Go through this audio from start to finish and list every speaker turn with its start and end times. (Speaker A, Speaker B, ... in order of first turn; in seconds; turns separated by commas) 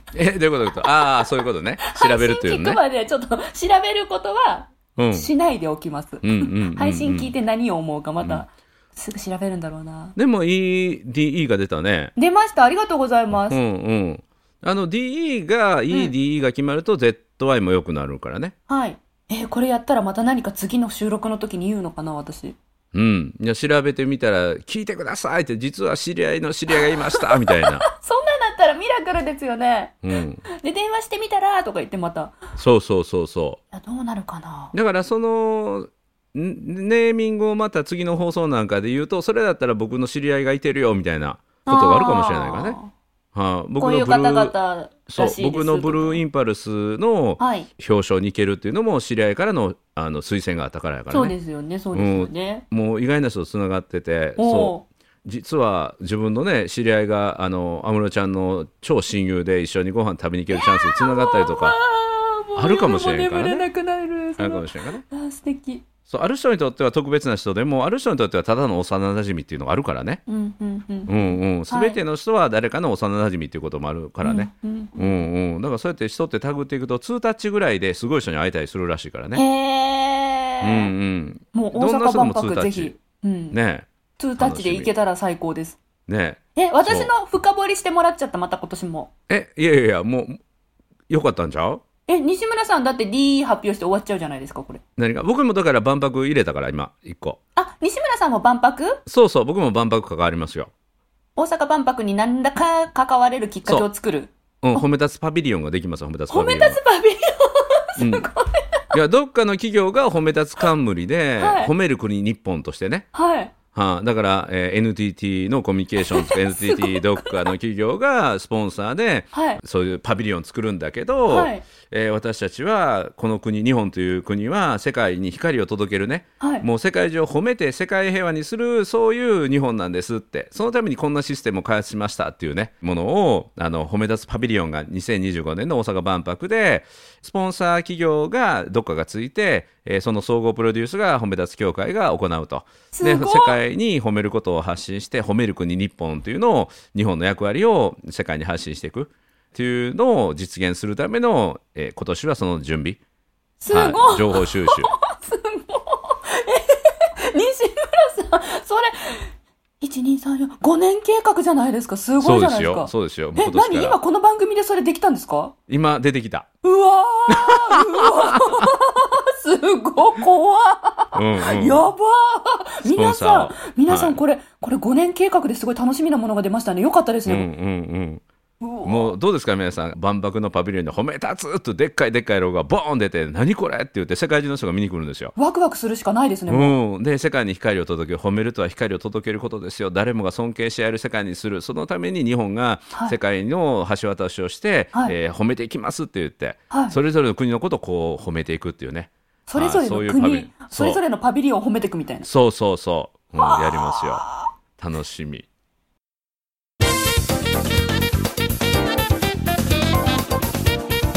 Speaker A: 0.1-2.8, Speaker B: 0.8-10.2, Speaker A: 5.0-5.3, Speaker A: 6.2-7.3, Speaker A: 10.2-12.1, Speaker B: 12.2-13.6, Speaker A: 13.3-18.5, Speaker B: 18.7-22.6, Speaker A: 22.9-27.9, Speaker B: 26.8-32.4, Speaker A: 30.0-30.4, Speaker A: 32.6-33.6, Speaker B: 33.7-34.8, Speaker A: 34.7-42.8, Speaker B: 41.7-42.9, Speaker A: 43.3-44.5, Speaker B: 43.8-46.2, Speaker A: 45.1-51.4, Speaker B: 47.4-47.7, Speaker B: 51.1-52.6, Speaker A: 51.9-61.8, Speaker B: 54.4-54.9, Speaker B: 60.5-65.9, Speaker A: 62.6-63.7, Speaker A: 64.4-65.0, Speaker A: 66.1-70.2, Speaker B: 70.3-72.0, Speaker A: 71.1-79.4, Speaker B: 74.2-75.2, Speaker B: 79.3-80.9, Speaker A: 80.6-82.9, Speaker B: 81.5-83.6, Speaker A: 83.5-83.9, Speaker B: 84.2-85.8, Speaker A: 84.4-84.9, Speaker A: 86.1-87.1, Speaker B: 86.6-89.1, Speaker A: 89.3-90.4, Speaker A: 91.1-91.8, Speaker B: 92.1-94.8, Speaker A: 95.0-97.4, Speaker B: 97.6-99.0, Speaker A: 99.1-100.7, Speaker B: 101.4-104.9, Speaker A: 104.6-106.8, Speaker B: 106.3-108.9, Speaker A: 108.0-108.3, Speaker A: 108.9-113.1, Speaker B: 111.4-111.7, Speaker B: 113.1-113.5, Speaker A: 113.7-153.0, Speaker B: 116.0-117.5, Speaker B: 119.3-119.6, Speaker B: 121.3-121.6, Speaker B: 126.4-126.7, Speaker B: 142.9-143.6, Speaker B: 153.6-159.2, Speaker A: 153.7-154.9, Speaker B: 159.8-165.6, Speaker A: 162.2-164.0, Speaker A: 165.7-166.5, Speaker B: 166.6-177.5, Speaker A: 167.3-168.7, Speaker A: 171.1-171.9, Speaker A: 172.8-174.2, Speaker A: 177.3-178.2, Speaker B: 178.6-179.2, Speaker A: 178.8-185.3, Speaker B: 185.4-186.8, Speaker A: 186.5-201.0, Speaker B: 196.7-197.0, Speaker B: 199.5-202.3, Speaker A: 202.2-204.2, Speaker B: 203.4-204.5, Speaker A: 204.8-205.5